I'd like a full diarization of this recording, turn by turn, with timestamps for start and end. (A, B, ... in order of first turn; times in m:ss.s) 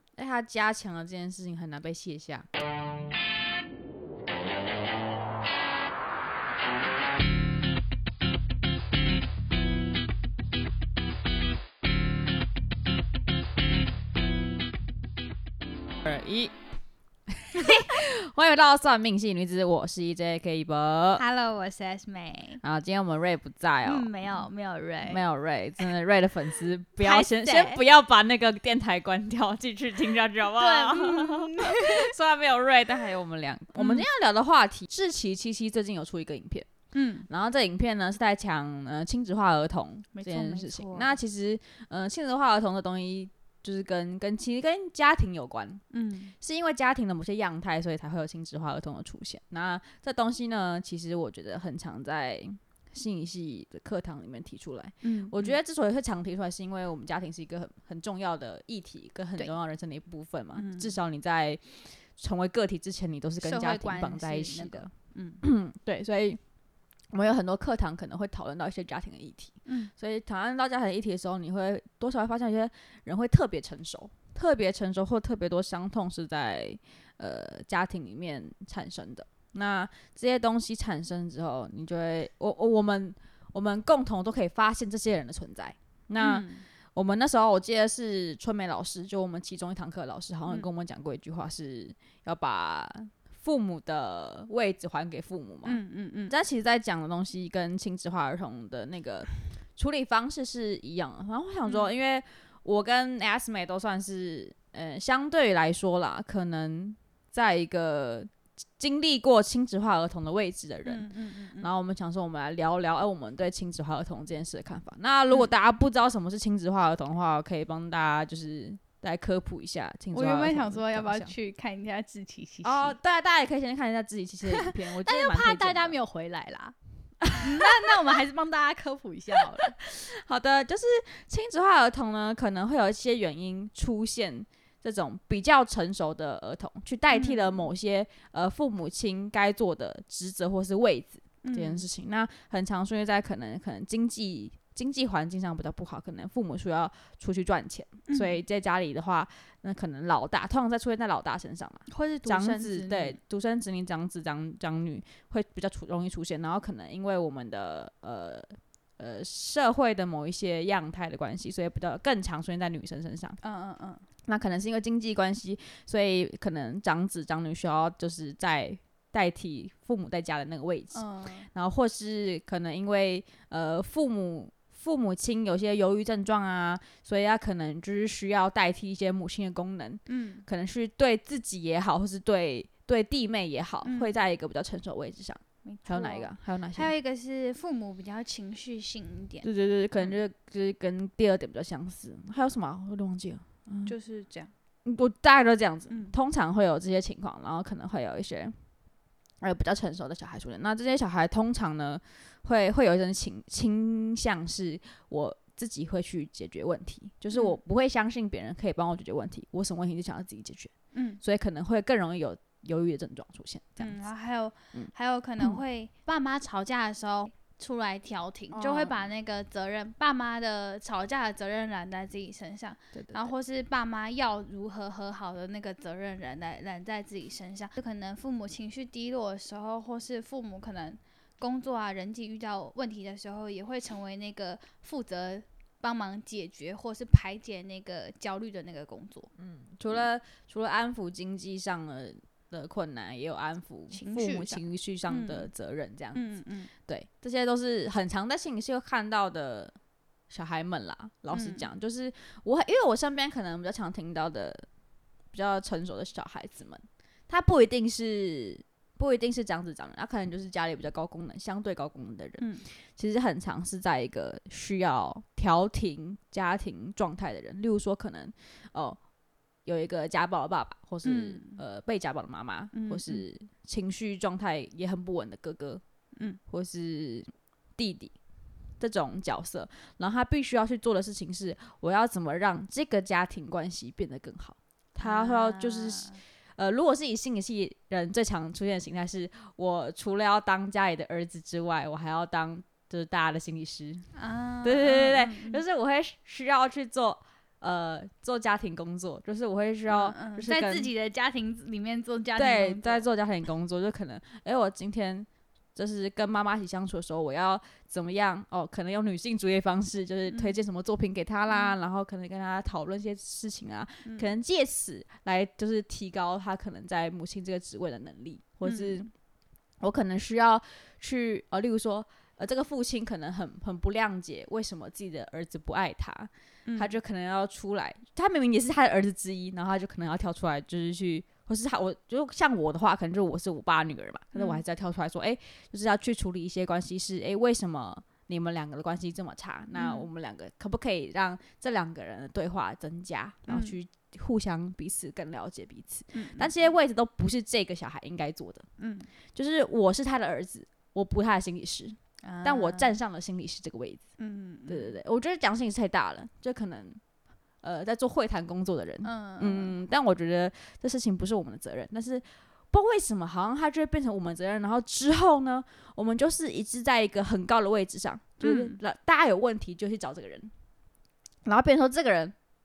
0:00.2-0:02.5 A
0:16.0-0:16.5 A
0:17.3-0:21.2 A
0:17.5-0:17.9 B
0:21.2-0:22.6 B
0:22.6-0:24.4 A
0:23.8-0:25.2 B
0:25.1-0:36.7 A
0:27.0-0:27.8 B
0:30.6-0:32.1 B
0:33.8-0:34.1 B
0:36.9-0:37.3 B
0:37.3-0:45.8 A
0:40.1-0:41.1 B
0:45.9-0:46.3 B
0:46.4-1:04.9 A
0:55.0-0:55.6 B
1:00.6-1:01.0 B
1:03.4-1:05.4 B
1:05.4-1:06.4 A
1:07.1-2:01.3 A
1:09.7-1:09.9 B
1:26.2-1:26.7 B
1:35.6-1:36.3 B
1:50.8-1:51.7 B
2:00.1-2:03.0 B
2:02.6-2:06.0 A
2:04.5-2:06.8 B
2:07.2-2:07.7 A
2:07.3-2:09.8 B
2:09.6-2:43.4 A
2:17.1-2:17.7 B
2:21.4-2:21.8 B
2:28.1-2:28.4 B
2:31.9-2:33.2 B
2:43.4-2:44.0 B
2:44.3-3:06.9 A
2:50.9-2:51.5 B
3:00.1-3:00.4 B
3:03.8-3:04.1 B
3:05.6-3:09.5 B
3:09.4-3:13.9 A
3:13.9-3:14.5 B
3:14.8-3:18.6 A
3:15.9-3:16.1 B
3:19.4-3:34.0 A
3:27.3-3:27.6 B
3:30.9-3:31.2 B
3:33.8-3:59.3 B
3:34.7-3:35.6 A
3:38.5-3:39.1 A
3:43.0-3:43.3 A
3:59.4-4:06.3 A
4:03.9-4:05.5 B
4:06.2-4:06.7 B
4:06.9-4:09.8 A
4:10.3-4:14.7 A
4:11.3-4:11.7 B
4:15.3-4:29.0 A
4:22.4-4:22.7 B
4:29.6-4:35.8 A
4:31.0-4:31.6 B
4:32.7-4:33.2 B
4:36.5-4:38.2 A
4:38.8-4:54.1 A
4:45.0-4:46.2 B
4:54.2-4:55.6 B
4:54.6-5:00.9 A
4:59.9-5:03.1 B
5:02.4-5:19.1 A
5:10.3-5:10.5 B
5:11.5-5:11.8 B
5:14.0-5:14.3 B
5:18.6-5:19.1 B
5:19.8-5:48.7 A
5:26.7-5:27.0 B
5:34.3-5:34.6 B
5:39.8-5:40.1 B
5:43.5-5:43.8 B
5:46.1-5:46.7 B
5:48.8-5:49.1 B
5:49.4-5:54.1 A
5:52.2-5:53.0 B
5:54.2-5:55.0 B
5:54.7-5:57.0 A
5:57.6-6:10.5 A
5:59.0-5:59.8 B
6:08.4-6:08.8 B
6:11.5-6:12.3 A